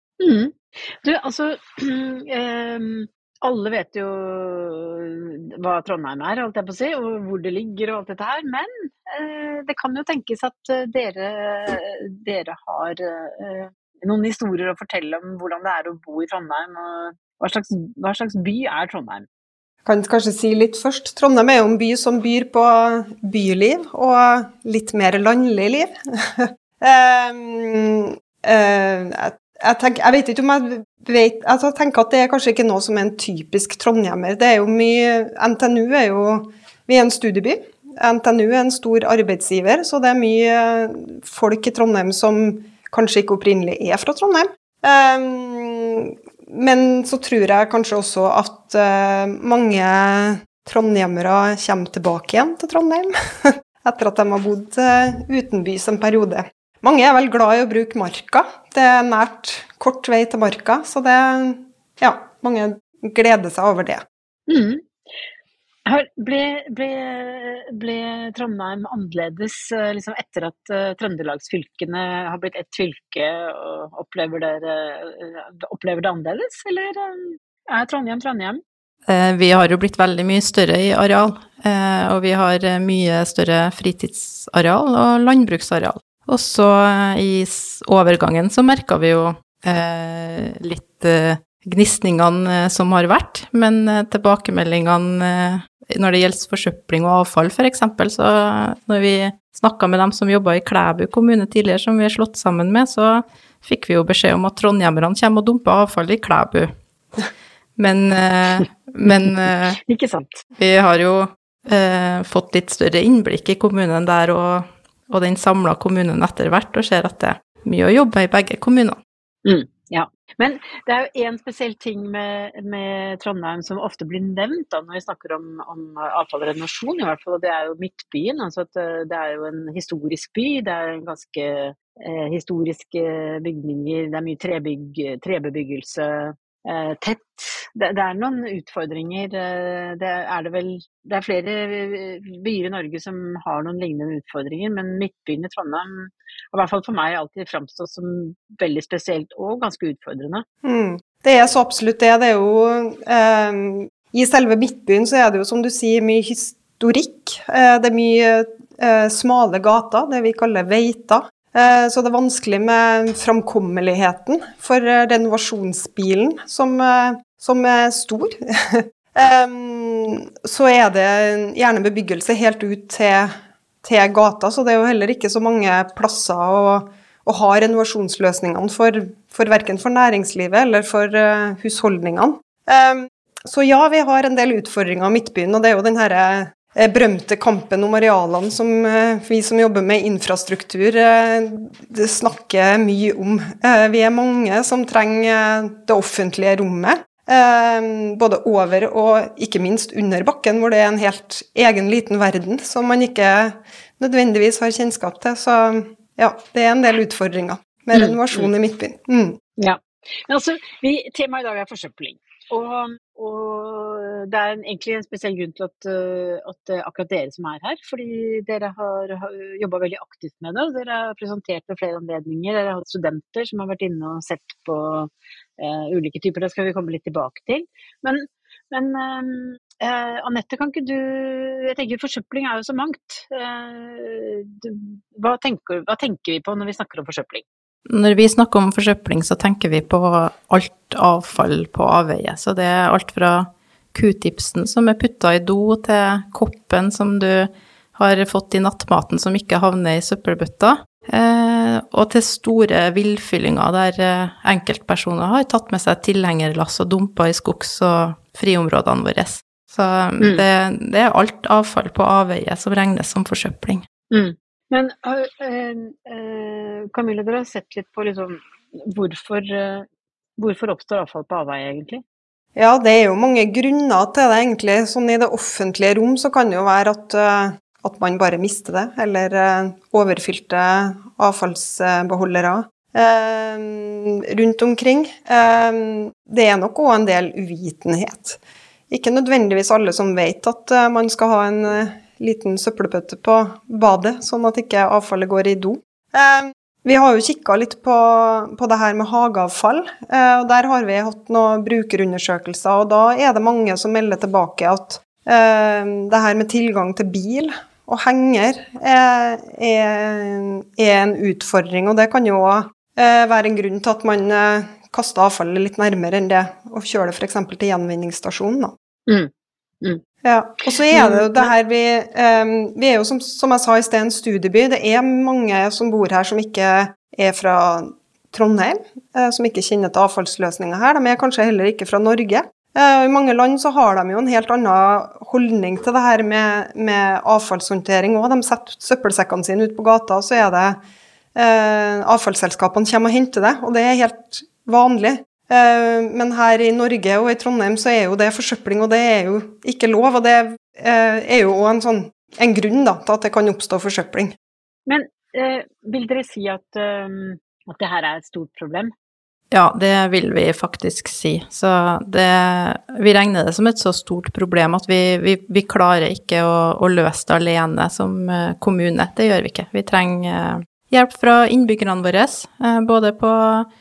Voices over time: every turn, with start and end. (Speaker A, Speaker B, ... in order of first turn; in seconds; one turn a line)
Speaker A: 0.2-19.3
Speaker B: 19.8-64.0
Speaker A: 64.5-65.0
Speaker A: 65.8-78.6
Speaker C: 79.1-106.7
Speaker C: 107.8-109.8
Speaker A: 108.6-110.4
Speaker C: 110.6-119.0
Speaker A: 119.4-150.4
Speaker B: 150.6-209.4
Speaker A: 207.9-208.5
Speaker A: 209.6-237.4
Speaker C: 237.8-263.8
Speaker A: 264.1-269.9
Speaker A: 270.4-272.0
Speaker B: 272.6-288.4
Speaker B: 288.9-318.7
Speaker B: 320.2-340.8
Speaker A: 320.9-321.5
Speaker B: 341.3-354.3
Speaker A: 354.9-358.9
Speaker C: 359.5-373.7